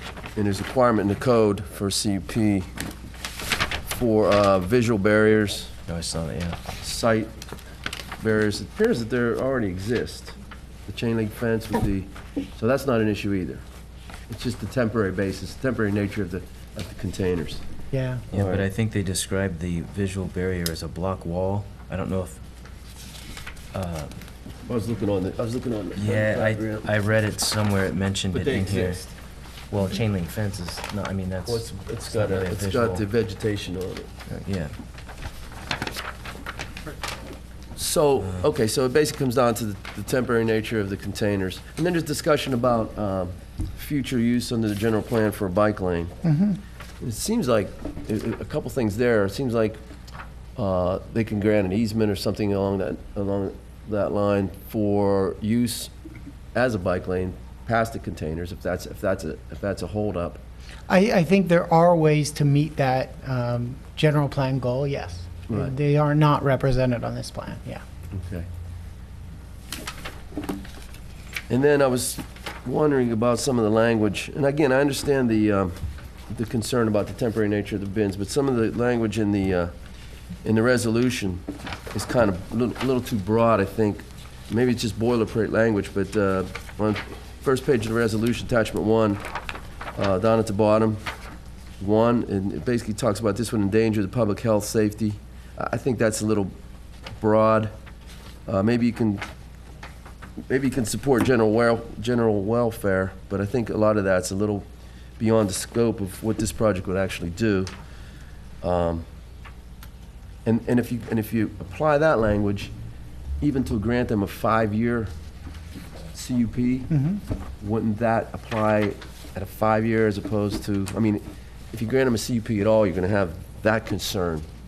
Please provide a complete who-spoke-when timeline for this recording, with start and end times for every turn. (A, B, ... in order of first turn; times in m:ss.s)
0:00.4-0:02.7 A
0:03.9-0:05.7 A
0:05.9-0:06.6 B
0:06.8-0:07.3 A
0:08.2-0:10.3 A
0:10.9-0:13.6 A
0:14.3-0:17.6 A
0:17.9-0:18.2 C
0:18.3-0:22.4 B
0:18.3-0:18.7 A
0:23.7-0:24.2 B
0:24.6-0:26.9 A
0:25.9-0:29.0 B
0:28.3-0:29.1 A
0:29.7-0:33.0 B
0:31.5-0:34.1 A
0:34.3-0:34.7 B
0:37.8-0:46.2 A
0:46.2-0:46.6 C
0:47.0-0:49.8 A
0:50.6-0:55.9 A
0:56.5-1:00.4 A
1:00.9-1:07.8 C
1:08.1-1:08.5 A
1:11.5-1:15.8 A
1:16.3-1:19.7 A
1:20.4-1:29.2 A
1:30.0-1:31.0 A
1:31.8-1:36.5 A
1:37.2-1:37.7 A
1:38.5-1:39.2 A
1:40.5-1:44.6 A
1:45.2-1:47.7 A
1:48.6-1:49.0 A
1:50.4-1:52.7 A
1:53.4-1:55.1 A
1:56.1-1:56.9 A
1:56.9-1:57.2 C
1:57.6-2:04.4 A